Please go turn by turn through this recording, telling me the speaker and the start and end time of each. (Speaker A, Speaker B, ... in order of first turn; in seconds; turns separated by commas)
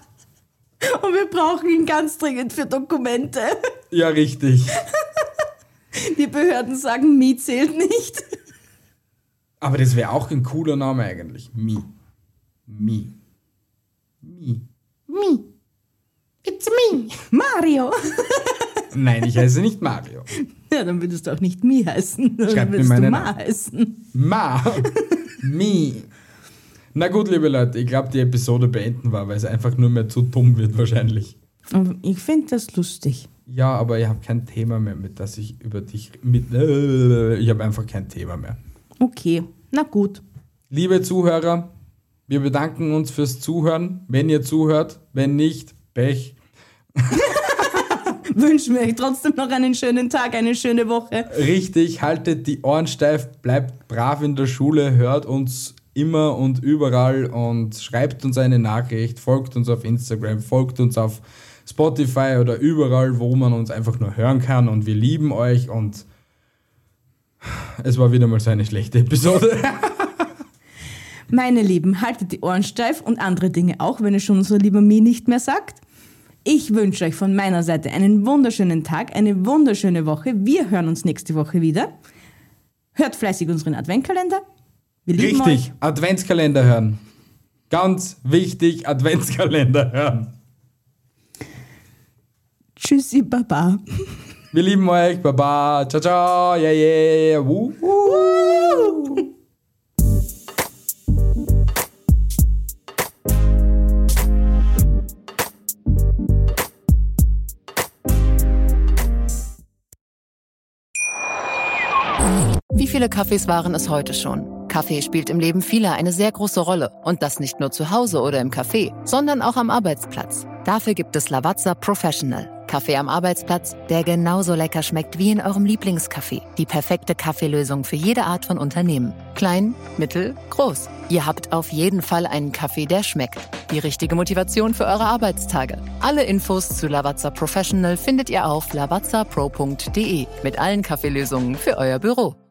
Speaker A: 0.8-3.6, Speaker B: 3.9-4.8, Speaker A: 5.9-8.2, Speaker B: 9.6-11.9, Speaker B: 12.7-13.1, Speaker B: 14.2-15.4, Speaker A: 16.5-18.8, Speaker B: 18.9-20.3, Speaker A: 20.7-24.0, Speaker B: 22.5-23.3, Speaker B: 24.1-26.1, Speaker B: 26.9-31.3, Speaker A: 31.7-33.3, Speaker B: 33.5-38.6, Speaker A: 39.0-40.2, Speaker B: 40.7-41.7, Speaker B: 42.3-46.3, Speaker B: 47.0-47.3, Speaker A: 48.3-51.3, Speaker B: 51.3-66.0, Speaker B: 67.4-70.3, Speaker A: 71.3-75.8, Speaker A: 76.4-81.9, Speaker A: 82.9-84.4, Speaker A: 85.0-85.7, Speaker B: 85.2-87.0, Speaker B: 87.7-90.3, Speaker A: 92.8-93.8, Speaker B: 94.5-99.2, Speaker A: 98.1-99.2, Speaker C: 112.7-142.4